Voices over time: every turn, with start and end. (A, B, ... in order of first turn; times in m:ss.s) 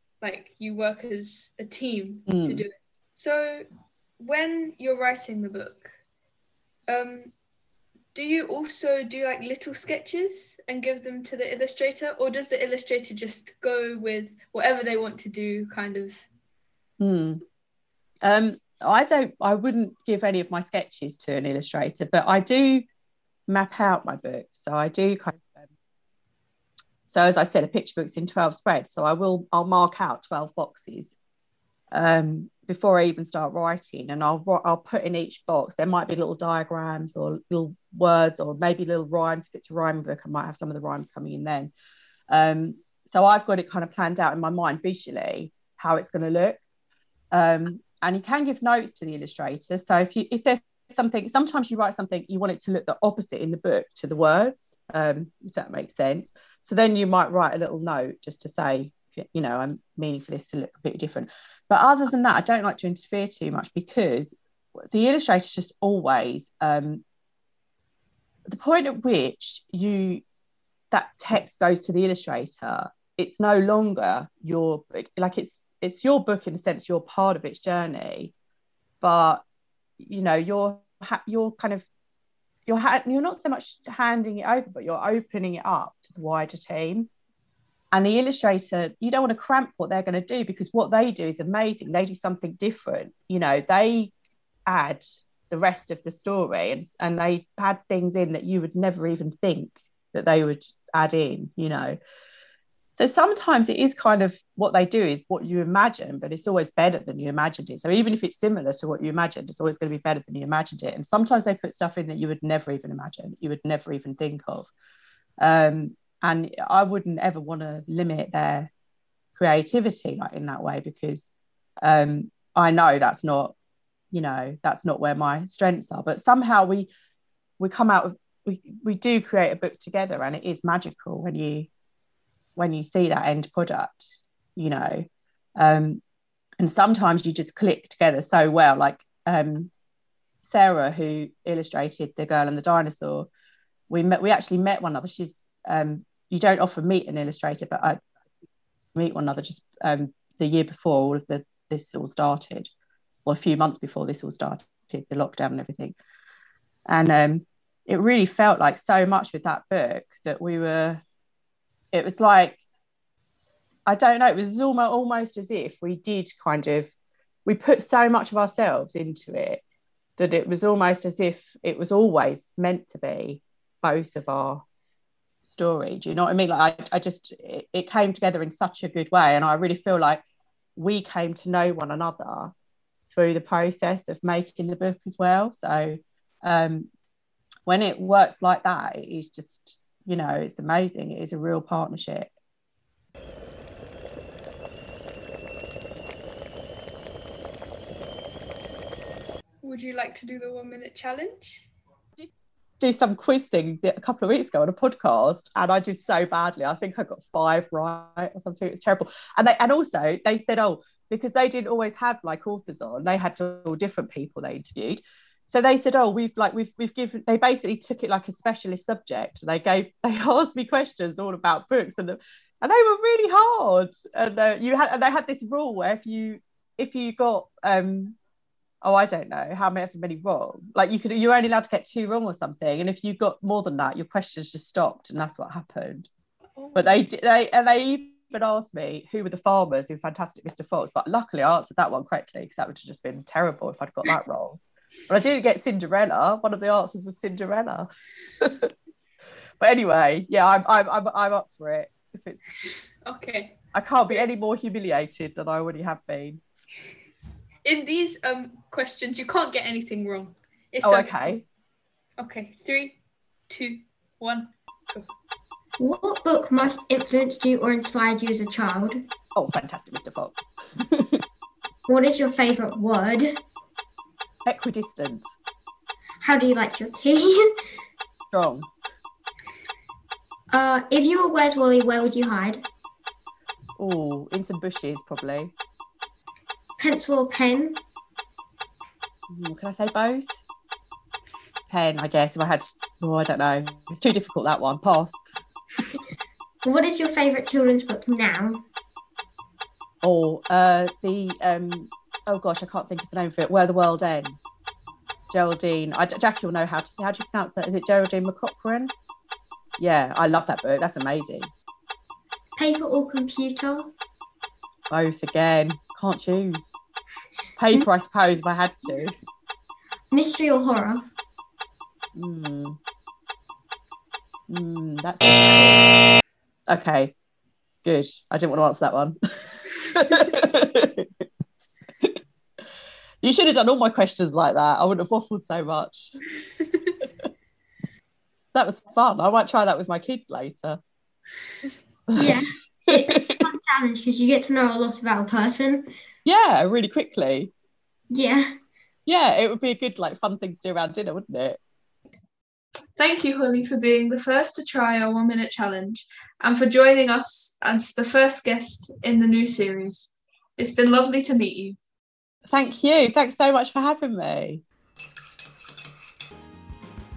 0:00.2-0:03.7 A
0:02.3-0:02.6 B
0:04.2-0:05.9 A
0:06.9-0:07.3 A
0:08.1-0:16.2 A
0:17.0-0:17.4 B
0:18.2-0:22.9 B
0:23.5-0:25.7 B
0:27.1-0:31.2 B
0:31.9-0:41.7 B
0:42.3-0:46.6 B
0:47.3-1:07.0 B
1:08.5-1:10.2 B
1:10.9-1:18.3 B
1:19.0-1:19.4 B
1:20.0-1:21.9 B
1:22.7-1:27.1 B
1:27.9-1:34.1 B
1:34.7-1:42.0 B
1:43.0-1:54.7 B
1:55.4-1:58.7 B
1:59.4-2:01.3 B
2:01.8-2:03.5 B
2:04.1-2:06.9 B
2:07.6-2:11.7 B
2:12.6-2:15.1 B
2:15.6-2:16.0 B
2:16.6-2:19.7 B
2:20.4-2:23.3 B
2:23.9-2:28.0 B
2:29.0-2:32.7 B
2:33.3-2:36.0 B
2:36.9-2:41.0 B
2:41.9-2:42.6 B
2:43.9-2:46.9 B
2:47.5-2:49.6 B
2:50.2-2:54.6 B
2:55.4-3:00.2 B
3:00.8-3:02.5 B
3:03.1-3:06.9 B
3:07.7-3:12.3 B
3:19.6-3:21.7 A
3:22.2-3:48.2 B
3:48.8-3:56.1 B
3:56.6-3:57.0 A
3:56.8-4:07.9 B
4:08.4-4:08.7 B
4:09.6-4:12.4 B
4:13.1-4:13.6 A
4:13.7-4:16.4 B
4:17.6-4:21.2 A
4:20.8-4:21.4 B
4:22.2-4:23.0 A
4:23.5-4:25.1 A
4:25.8-4:29.1 C
4:29.4-4:31.2 B
4:31.9-4:33.4 C
4:34.5-4:35.3 B
4:36.2-4:37.5 C
4:38.3-4:38.7 B
4:40.5-4:42.6 C
4:43.8-4:45.5 B
4:46.8-4:47.8 C
4:49.3-4:50.4 B
4:51.7-4:55.2 B
4:56.6-4:58.6 C
5:00.0-5:04.5 B
5:05.3-5:08.9 B
5:09.8-5:11.5 B
5:12.6-5:13.9 C
5:14.9-5:16.7 B
5:17.6-5:19.1 B
5:20.1-5:21.1 C
5:22.2-5:22.8 B
5:24.5-5:25.9 B
5:26.7-5:27.1 B
5:27.8-5:31.3 B
5:33.2-5:36.1 B
5:38.5-5:40.8 B
5:42.1-5:43.4 B
5:42.2-5:45.9 C
5:46.2-5:47.5 B
5:48.1-5:48.5 C
5:49.1-5:51.6 B
5:53.0-6:01.8 A
6:02.5-6:04.6 B